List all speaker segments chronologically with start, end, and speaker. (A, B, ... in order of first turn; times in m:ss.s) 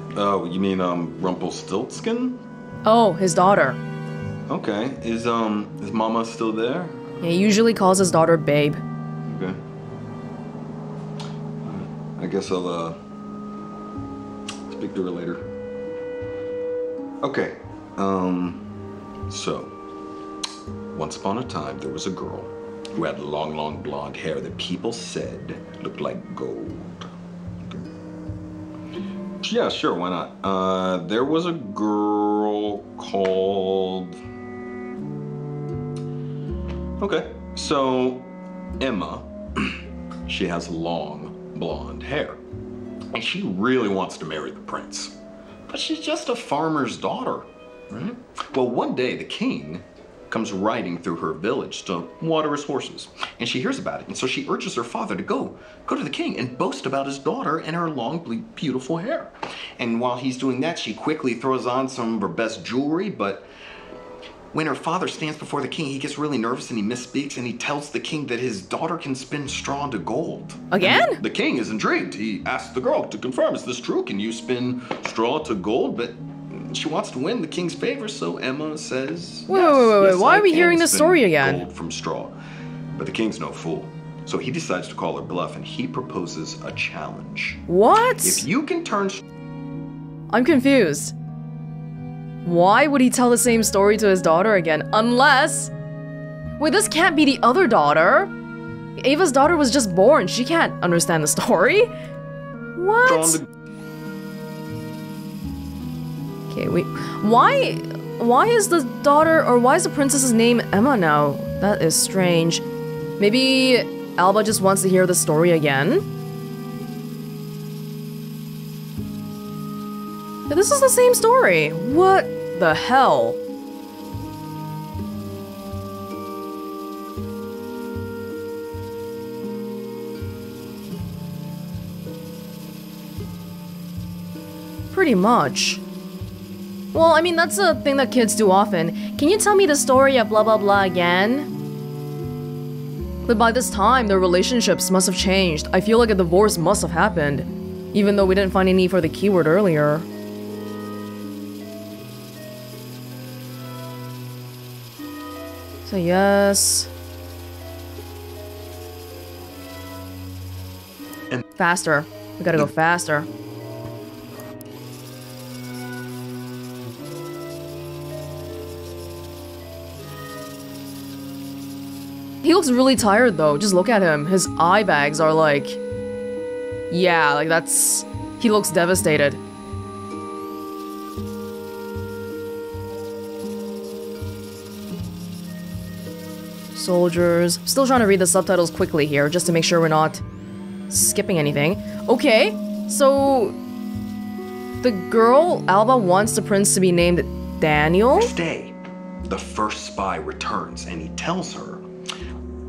0:00.1-0:02.4 A
0:02.8-0:03.8 B
0:04.5-0:07.0 A
0:07.2-0:08.8 B
0:09.2-0:09.6 A
0:11.6-0:13.0 A
0:14.7-0:15.5 A
0:17.2-0:18.6 A
0:19.3-0:19.8 A
0:20.9-0:27.1 A
0:29.4-0:34.2 A
0:37.0-0:42.4 A
0:43.1-1:03.5 A
1:04.5-1:22.4 A
1:10.7-1:11.2 B
1:19.5-1:21.6 B
1:22.9-1:27.6 A
1:27.7-1:28.4 B
1:28.2-1:29.2 A
1:30.3-1:31.1 B
1:32.4-1:35.7 B
1:36.6-1:38.3 B
1:39.0-1:41.9 B
1:42.8-1:43.4 B
1:43.0-1:43.5 A
1:46.5-1:52.6 B
1:53.2-1:56.0 B
2:00.5-2:03.4 B
2:14.9-2:15.8 B
2:16.9-2:21.5 B
2:23.3-2:30.0 B
2:35.8-2:36.9 B
2:41.6-2:43.3 B
2:52.4-2:55.8 B
2:56.9-2:59.4 B
3:06.7-3:10.2 B
3:10.9-3:13.6 B
3:14.8-3:18.3 B
3:18.1-3:21.8 A